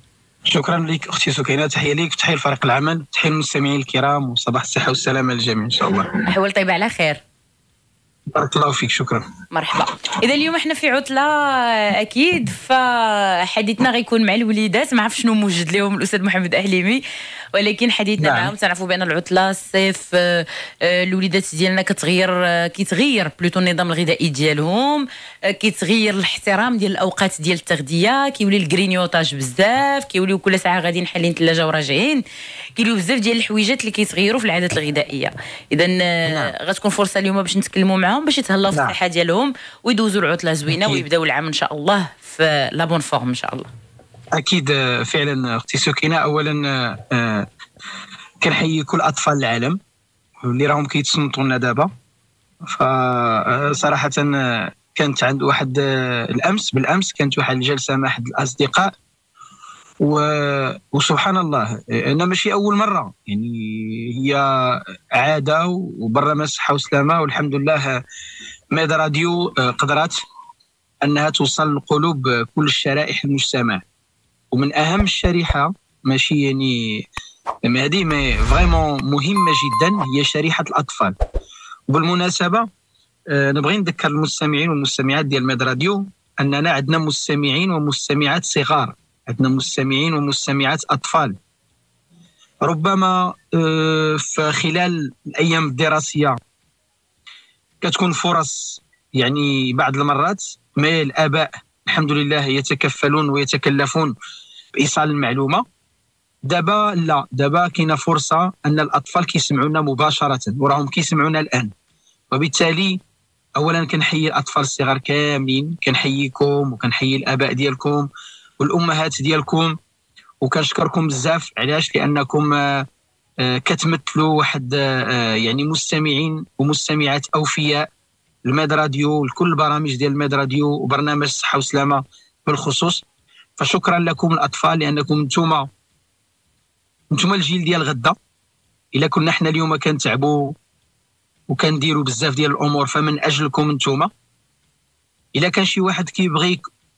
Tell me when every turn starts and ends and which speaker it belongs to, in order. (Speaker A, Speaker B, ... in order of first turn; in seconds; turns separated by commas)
Speaker A: 0.5-6.1, Speaker B: 6.3-7.2, Speaker A: 8.3-9.2, Speaker B: 9.5-17.0, Speaker B: 17.5-32.2, Speaker A: 18.2-18.5, Speaker B: 32.8-43.7, Speaker A: 36.3-36.5, Speaker A: 38.7-39.0, Speaker A: 40.7-41.0, Speaker A: 44.3-47.5, Speaker A: 48.4-49.8, Speaker A: 50.4-51.9, Speaker A: 52.7-58.9, Speaker A: 60.0-68.0, Speaker A: 68.7-70.2, Speaker A: 71.0-73.8, Speaker A: 74.5-77.0, Speaker A: 77.7-81.1, Speaker A: 81.9-82.7, Speaker A: 83.3-91.4, Speaker A: 92.6-96.3, Speaker A: 97.8-104.1, Speaker A: 104.8-105.6, Speaker A: 106.5-111.7, Speaker A: 112.3-113.0, Speaker A: 113.5-118.1, Speaker A: 118.6-119.7, Speaker A: 120.4-122.8, Speaker A: 123.4-127.9, Speaker A: 128.4-133.0, Speaker A: 133.6-135.7, Speaker A: 137.1-138.1, Speaker A: 138.9-140.6, Speaker A: 141.5-144.1, Speaker A: 145.3-146.6